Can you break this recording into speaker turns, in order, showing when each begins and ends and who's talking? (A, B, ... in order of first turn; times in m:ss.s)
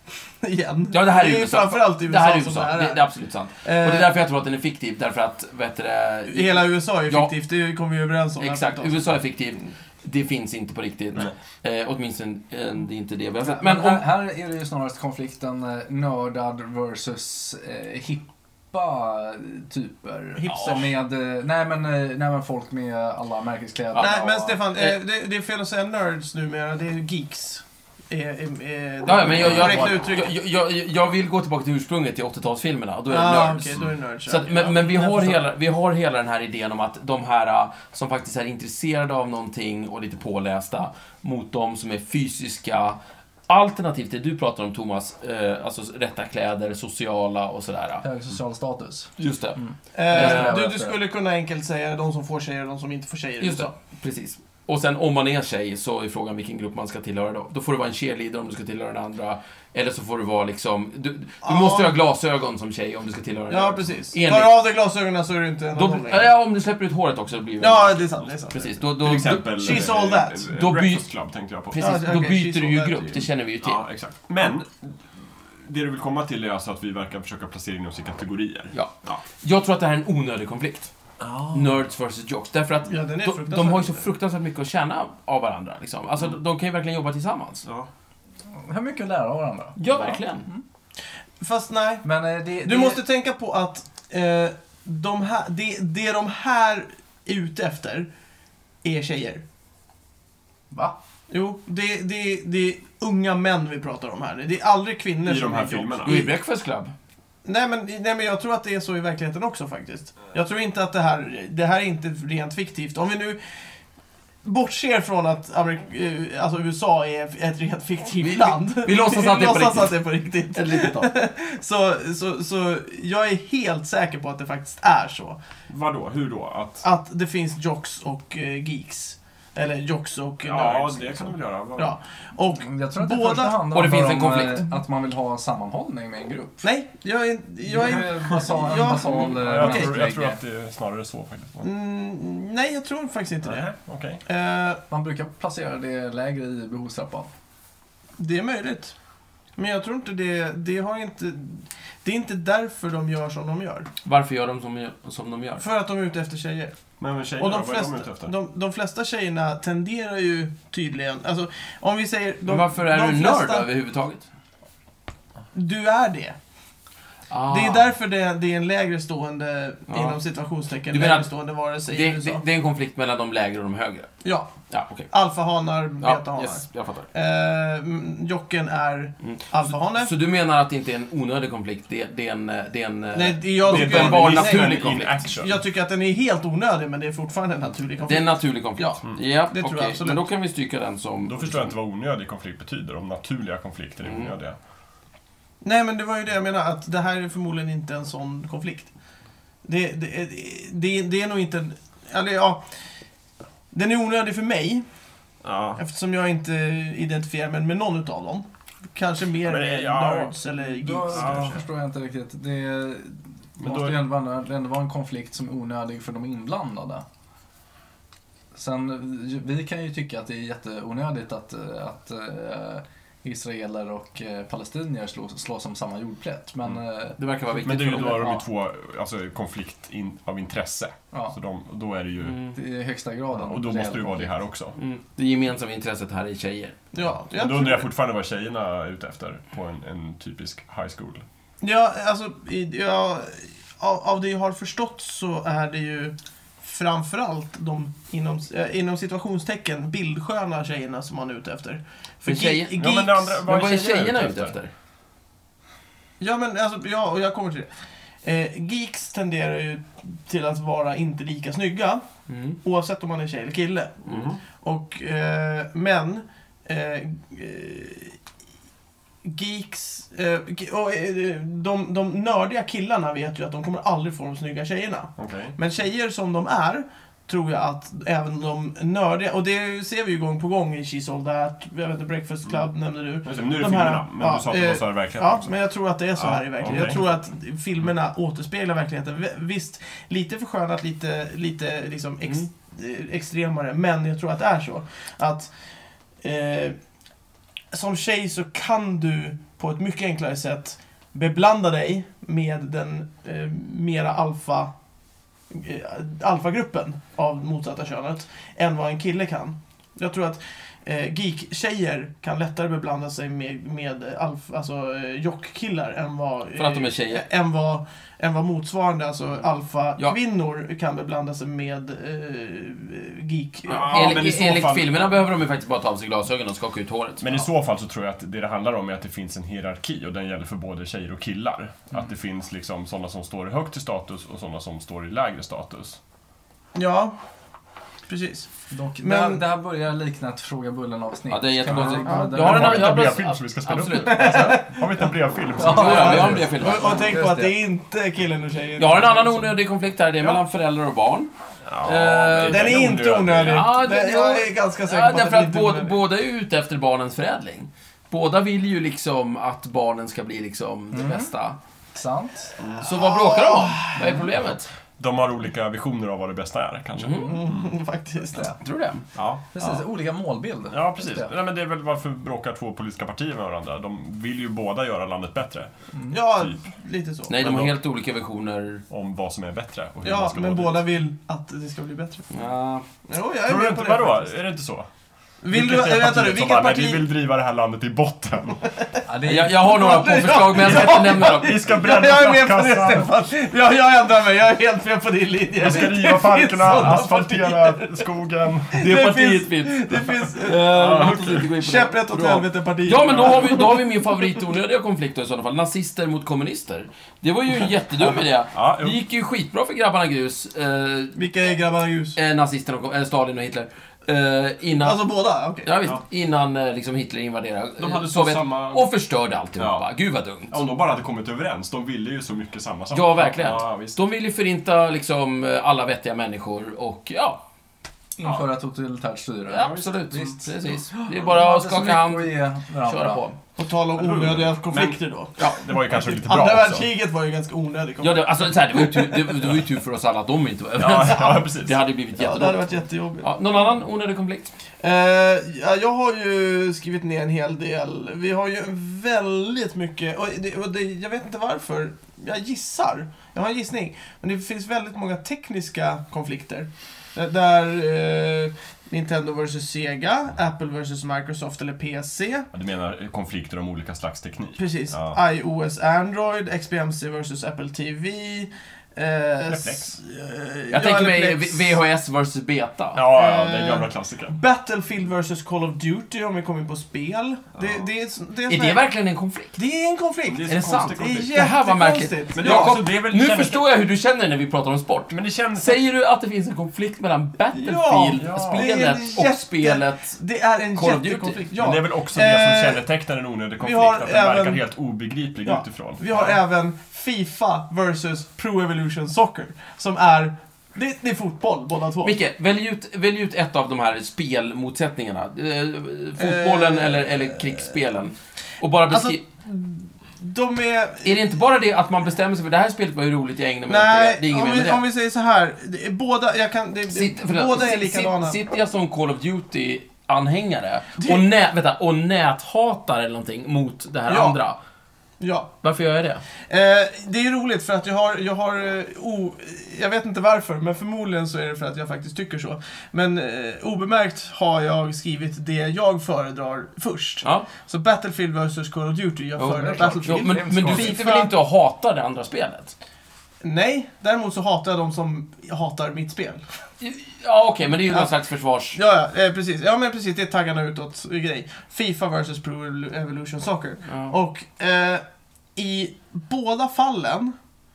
0:00.4-0:03.0 A
0:00.9-0:07.3 B
0:03.6-0:04.1 A
0:06.3-0:09.1 A
0:08.4-0:14.0 B
0:13.4-0:24.6 C
0:20.4-0:20.9 A
0:20.5-0:20.8 B
0:24.0-0:30.3 A
0:29.0-0:48.0 B
0:33.1-0:35.4 A
0:48.0-0:51.0 C
0:49.2-0:50.6 B
0:49.9-0:53.7 A
0:53.4-1:04.6 B
1:01.4-1:01.9 A
1:03.5-1:06.3 A
1:05.7-1:09.9 B
1:07.6-1:08.7 A
1:08.9-1:12.0 D
1:09.6-1:10.5 A
1:10.5-1:11.0 B
1:11.7-1:13.8 B
1:11.8-1:13.2 A
1:13.6-1:15.0 D
1:15.6-1:19.2 D
1:18.7-1:20.9 B
1:21.2-1:21.7 D
1:21.5-1:27.6 B
1:22.9-1:24.0 A
1:28.5-1:30.6 C
1:29.8-1:30.5 B
1:31.4-1:32.0 A
1:32.0-1:33.0 C
1:32.6-1:38.1 A
1:38.8-1:39.4 A
1:40.7-1:41.0 C
1:41.3-1:46.3 A
1:45.2-1:46.2 D
1:46.0-1:46.9 B
1:47.4-1:53.4 A
1:54.4-2:05.4 A
1:58.2-2:00.0 B
2:00.5-2:01.1 B
2:05.7-2:06.8 D
2:06.8-2:13.6 A
2:10.4-2:12.0 D
2:12.6-2:16.6 C
2:13.7-2:14.6 B
2:16.6-2:19.9 A
2:17.6-2:20.4 C
2:19.2-2:21.7 D
2:21.6-2:23.7 A
2:23.4-2:24.2 D
2:24.2-2:24.8 A
2:24.9-2:27.3 C
2:28.2-2:28.9 A
2:29.6-2:33.9 A
2:34.0-2:35.6 B
2:35.6-2:36.7 A
2:37.0-2:38.4 D
2:37.4-2:43.7 A
2:42.4-2:44.2 B
2:45.5-2:46.4 A
2:47.3-2:47.9 B
2:47.5-2:52.4 A
2:49.9-2:50.2 B
2:50.9-2:51.3 B
2:51.9-2:54.1 B
2:54.2-2:54.5 A
2:54.7-2:55.1 B
2:55.1-3:00.1 A
2:56.0-2:57.1 B
2:59.2-3:05.2 B
3:03.1-3:10.2 A
3:03.6-3:05.6 D
3:08.0-3:11.7 B
3:11.2-3:14.6 D
3:14.0-3:14.3 B
3:15.6-3:18.9 A
3:19.6-3:22.6 A
3:23.7-3:24.8 A
3:25.4-3:25.8 D
3:25.8-3:31.6 A
3:29.4-3:30.4 D
3:30.6-3:37.0 C
3:31.1-3:31.6 D
3:33.6-3:34.0 D
3:38.5-3:47.2 C
3:47.2-3:48.4 B
3:47.6-3:52.4 D
3:52.2-3:52.6 B
3:52.5-3:54.3 C
3:53.4-3:54.8 D
3:54.8-3:56.8 B
3:56.9-3:57.9 A
3:57.3-4:01.2 D
4:01.6-4:13.4 A
4:12.2-4:12.8 B
4:12.8-4:14.5 D
4:13.4-4:14.7 B
4:16.2-4:17.7 A
4:18.2-4:22.0 A
4:22.3-4:22.6 B
4:22.6-4:28.2 A
4:24.1-4:24.3 B
4:24.1-4:24.4 D
4:29.2-4:55.5 A
4:35.2-4:35.5 D
4:43.2-4:45.5 D
4:46.1-4:47.0 D
4:56.2-4:56.8 A
4:57.7-5:04.7 A
5:05.5-5:24.2 A
5:16.5-5:17.2 B
5:23.7-5:25.2 D
5:23.7-5:27.4 B
5:27.2-5:36.0 D
5:36.8-5:37.2 A
5:38.1-5:38.5 A
5:38.7-5:43.1 C
5:39.0-5:39.4 A
5:41.3-5:44.6 B
5:41.8-5:46.4 D
5:42.0-5:42.5 A
5:44.0-5:45.1 A
5:45.6-5:47.6 C
5:45.6-5:47.1 B
5:45.7-5:49.5 A
5:48.8-5:51.3 B
5:51.6-5:53.7 D
5:51.8-6:01.6 B
5:52.5-5:56.0 A
6:00.9-6:01.3 C
6:01.9-6:02.5 C
6:02.6-6:02.8 D
6:02.8-6:04.2 A
6:02.8-6:04.7 B
6:05.0-6:07.7 D
6:07.0-6:07.4 B
6:07.2-6:08.5 A
6:08.6-6:09.0 B
6:09.1-6:09.4 D
6:09.5-6:11.3 C
6:10.7-6:15.7 D
6:16.1-6:17.4 A
6:16.4-6:16.6 D
6:17.3-6:18.8 B
6:17.4-6:17.7 D
6:18.9-6:20.8 D
6:20.0-6:22.3 A
6:22.3-6:22.9 B
6:23.1-6:24.3 A
6:23.4-6:24.9 D
6:25.4-6:27.0 A
6:25.5-6:28.6 D
6:29.0-6:30.1 C
6:29.2-6:31.6 B
6:29.6-6:38.1 A
6:30.5-6:33.1 D
6:35.6-6:38.8 D
6:38.7-6:43.8 A
6:38.8-6:51.2 B
6:40.6-6:41.4 D
6:43.0-6:43.3 D
6:48.5-6:49.0 D
6:51.1-6:52.2 A
6:52.1-6:55.0 B
6:54.8-6:55.7 A
6:55.6-7:00.6 B
6:57.8-6:58.9 D
6:59.6-6:59.9 D
7:00.5-7:04.0 D
7:02.9-7:07.4 B
7:08.2-7:13.2 C
7:09.5-7:13.4 B
7:13.6-7:19.2 A
7:13.9-7:16.9 D
7:18.0-7:24.5 B
7:20.8-7:21.8 D
7:22.2-7:23.3 A
7:24.8-7:42.5 A
7:42.5-7:45.2 D
7:44.6-7:51.8 A
7:49.5-7:49.9 D
7:50.7-7:53.0 B
7:52.9-7:54.4 D
7:53.1-7:58.8 A
7:57.6-7:57.9 D
7:58.5-7:59.6 B
7:59.6-8:02.8 A
8:00.2-8:01.4 D
8:00.4-8:10.2 B
8:02.4-8:03.6 D
8:05.1-8:05.8 D
8:07.5-8:12.8 A
8:08.2-8:08.7 D
8:10.7-8:11.4 B
8:11.6-8:16.4 D
8:13.6-8:14.6 A
8:15.4-8:22.1 A
8:22.0-8:29.2 B
8:26.2-8:27.4 A
8:28.9-8:31.3 A
8:31.0-8:34.8 B
8:33.7-8:38.4 A
8:36.9-8:44.6 B
8:41.0-8:41.3 A
8:44.1-8:44.4 A
8:45.2-8:45.5 A
8:45.6-8:46.2 B
8:46.5-9:01.3 A
8:57.2-8:57.5 B
8:59.4-9:02.7 B
8:59.5-9:01.0 C
9:03.4-9:06.4 A
9:06.8-9:08.8 B
9:08.7-9:15.0 A
9:13.9-9:14.1 B
9:15.6-9:17.4 A